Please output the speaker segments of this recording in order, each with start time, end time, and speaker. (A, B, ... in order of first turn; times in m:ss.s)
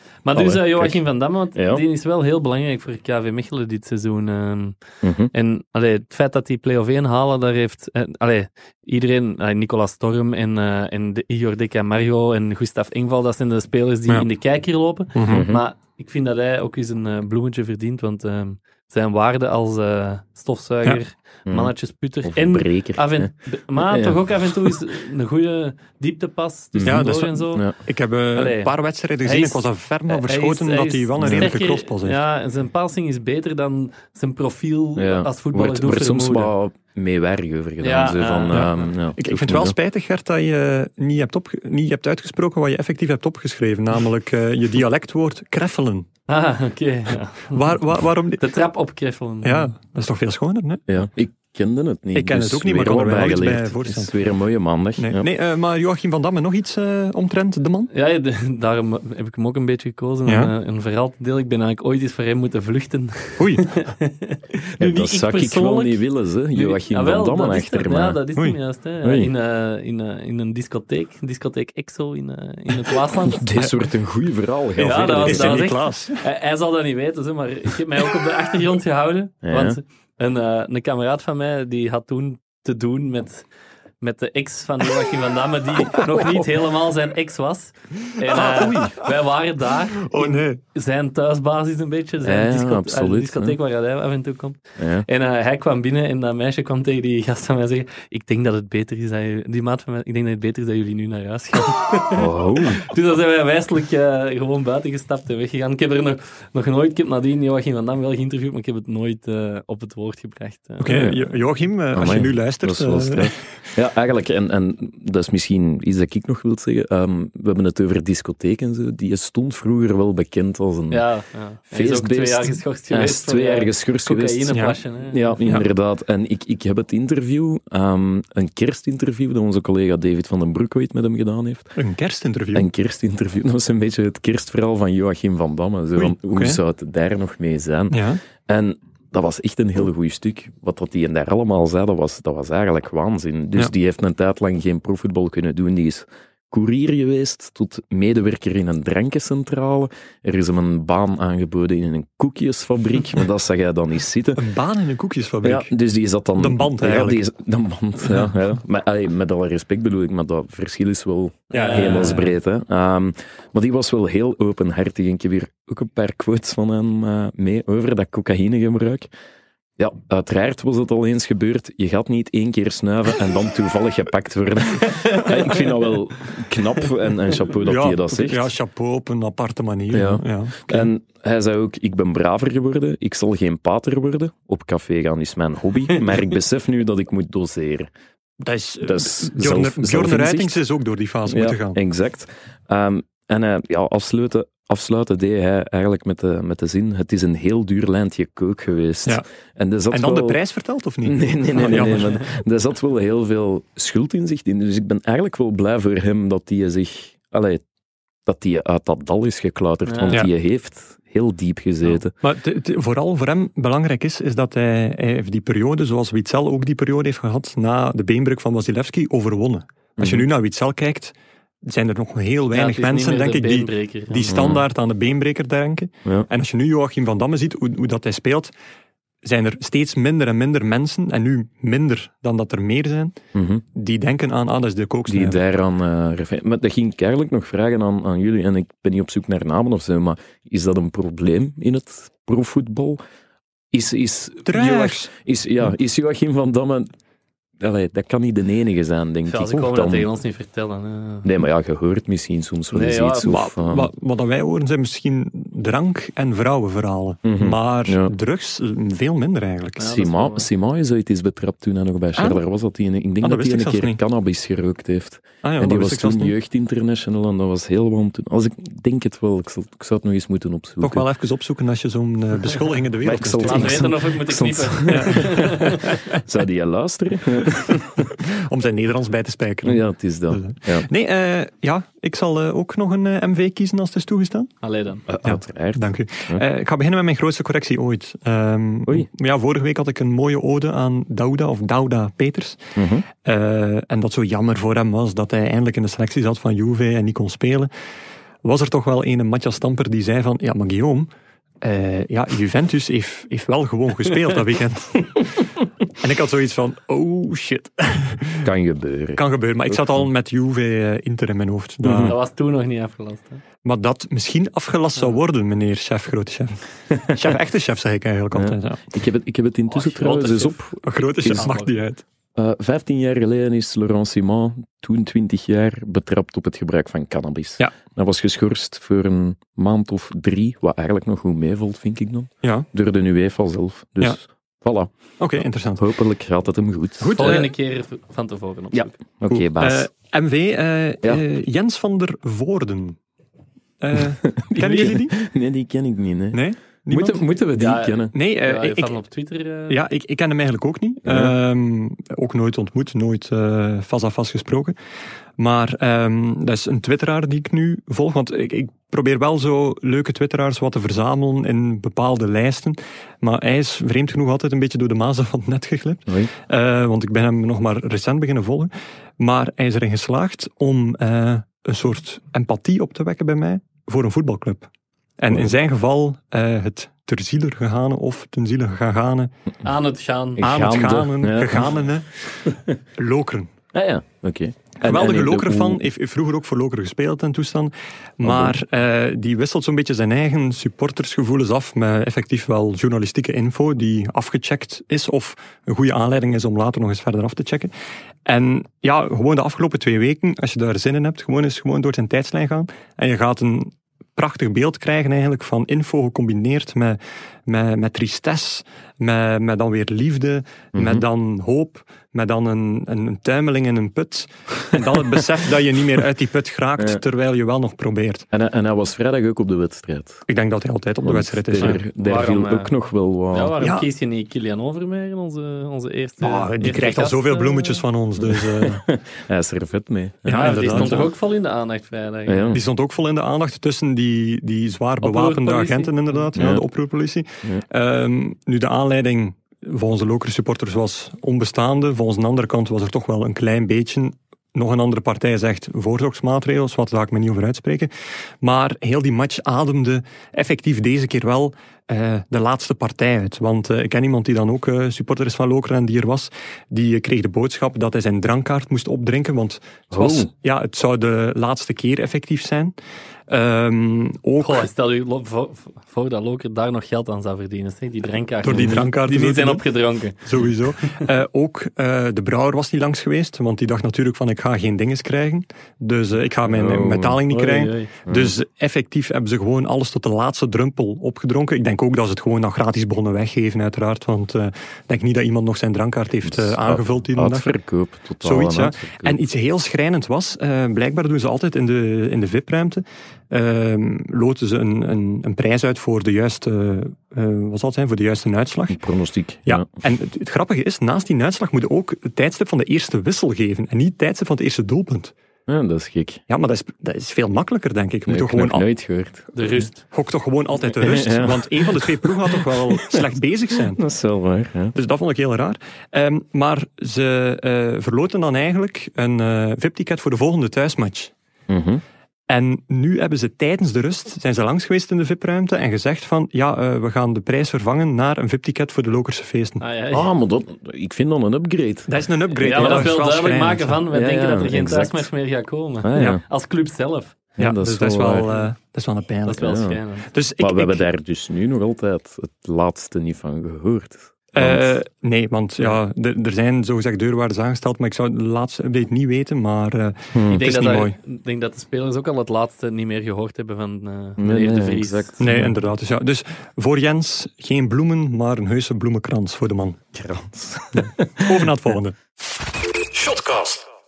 0:00.2-0:04.8 A
0:00.3-0:01.0 B
0:01.6-0:01.8 B
0:05.0-0:05.3 B
0:05.3-0:27.6 A
0:15.2-0:15.5 C
0:15.3-0:15.6 B
0:21.5-0:21.7 B
0:22.2-0:24.8 B
0:26.7-0:27.8 B
0:26.8-0:32.2 C
0:28.3-0:28.7 A
0:29.2-0:36.5 A
0:31.2-0:31.5 B
0:35.0-0:39.8 B
0:37.8-0:38.7 A
0:38.5-0:46.1 C
0:46.3-0:47.7 A
0:47.5-0:48.6 C
0:48.4-0:49.7 A
0:49.4-0:50.9 C
0:50.9-0:55.3 B
0:52.1-0:54.2 C
0:55.0-0:57.9 C
0:57.9-1:13.6 A
1:00.3-1:00.5 C
1:03.4-1:03.6 C
1:04.8-1:08.2 B
1:09.0-1:09.3 B
1:13.1-1:15.7 B
1:14.8-1:23.4 A
1:15.2-1:16.2 C
1:19.4-1:19.8 B
1:24.0-1:51.1 A
1:28.3-1:29.0 C
1:30.0-1:30.6 C
1:32.2-1:33.6 B
1:34.8-1:35.1 B
1:42.1-1:42.8 B
1:50.8-1:53.4 C
1:50.9-1:51.2 B
1:51.9-2:01.0 B
2:00.9-2:05.4 A
2:01.7-2:11.7 B
2:04.5-2:04.8 C
2:11.8-2:12.7 C
2:12.5-2:34.4 B
2:16.0-2:16.6 C
2:17.9-2:18.2 C
2:34.4-2:35.7 C
2:35.4-2:49.1 B
2:36.4-2:37.2 C
2:38.0-2:38.3 C
2:41.5-2:42.3 C
2:41.5-2:42.3 A
2:49.8-2:58.5 B
2:57.6-3:00.9 C
2:59.9-3:07.9 B
3:08.4-3:11.8 C
3:08.8-3:10.6 B
3:11.3-3:20.4 B
3:19.9-3:22.2 C
3:21.0-3:27.6 B
3:28.3-3:32.1 B
3:29.9-3:30.2 A
3:31.8-3:41.2 C
3:40.0-3:40.3 B
3:41.7-3:48.5 C
3:42.5-3:44.4 A
3:44.3-3:44.6 B
3:49.2-3:53.2 C
3:53.4-3:53.6 B
3:53.7-3:55.4 C
3:55.1-4:03.0 B
4:03.7-4:06.9 B
4:04.4-4:05.1 C
4:07.6-4:10.1 B
4:09.3-4:11.3 A
4:11.2-4:13.9 B
4:12.7-4:13.4 A
4:13.2-4:19.9 C
4:17.2-4:18.1 B
4:19.8-4:20.5 A
4:19.9-4:31.0 B
4:22.2-4:22.4 C
4:23.2-4:24.0 C
4:25.4-4:26.4 C
4:30.8-4:33.8 C
4:33.0-4:38.1 B
4:33.4-4:35.9 A
4:34.9-4:36.2 C
4:38.0-4:44.5 C
4:39.6-4:40.9 B
4:44.6-4:45.0 A
4:45.1-4:46.4 B
4:45.2-4:57.7 C
4:52.8-4:53.1 B
4:58.4-5:01.1 C
5:01.6-5:08.5 C
5:08.4-5:09.9 B
5:09.2-5:12.2 C
5:11.8-5:12.2 B
5:12.0-5:13.4 A
5:13.6-5:18.9 C
5:16.9-5:17.2 B
5:18.3-5:21.5 B
5:19.7-5:21.7 A
5:20.8-5:22.0 C
5:22.4-5:34.9 B
5:35.2-5:35.8 C
5:35.8-5:37.4 B
5:37.0-5:37.5 C
5:37.2-5:38.9 A
5:38.7-5:39.9 B
5:39.3-5:43.0 C
5:43.8-5:45.2 C
5:44.0-5:48.1 B
5:46.3-5:47.3 C
5:47.6-5:49.8 A
5:48.1-5:49.0 C
5:49.7-5:54.8 C
5:51.0-5:51.3 B
5:55.4-6:14.7 C
6:15.2-6:19.3 C
6:19.6-6:20.4 A
6:20.4-6:21.8 B
6:20.4-6:23.5 C
6:22.5-6:22.8 B
6:23.7-6:25.8 B
6:24.8-6:37.7 C
6:28.2-6:28.6 B
6:38.2-6:58.3 C
6:50.7-6:51.0 B
6:58.3-7:00.2 B
7:00.3-7:01.8 C
7:01.0-7:03.6 B
7:01.6-7:02.7 A
7:03.3-7:07.8 A
7:03.6-7:03.9 C
7:06.2-7:08.8 C
7:08.2-7:11.1 B
7:10.2-7:11.1 C
7:10.4-7:12.6 A
7:12.3-7:12.6 B
7:12.5-7:27.9 C
7:15.0-7:16.3 A
7:16.4-7:16.6 B
7:28.4-7:42.7 C
7:39.9-7:40.3 B
7:43.3-7:44.7 C
7:44.4-7:50.9 A
7:48.4-7:49.6 C
7:50.2-8:07.5 C
7:56.5-7:57.2 B
7:57.3-7:57.9 A
7:58.1-7:58.3 B
8:06.2-8:09.2 B
8:08.2-8:18.8 C
8:18.7-8:19.6 B
8:19.4-8:25.1 C
8:25.5-8:26.2 B
8:26.3-8:28.7 C
8:28.1-8:29.6 B
8:29.4-8:29.8 A
8:29.8-8:33.8 C
8:30.8-8:34.8 B
8:34.8-8:41.1 C
8:41.5-8:41.8 B
8:42.3-8:49.6 C
8:49.6-8:50.1 A
8:49.9-8:51.9 B
8:51.9-8:53.8 C
8:52.4-8:57.2 A
8:52.4-8:52.9 B
8:53.9-8:55.1 B
8:55.8-8:56.2 B
8:56.0-8:56.2 C
8:57.4-8:58.4 B
8:57.4-9:00.9 C
8:59.3-9:00.1 A
8:59.4-8:59.8 B
9:00.4-9:04.8 B
9:04.3-9:11.0 C
9:10.1-9:10.5 B
9:10.3-9:15.2 A
9:14.2-9:15.5 B
9:15.2-9:19.8 C
9:19.9-9:21.5 B
9:20.8-9:22.0 C
9:22.9-9:23.6 B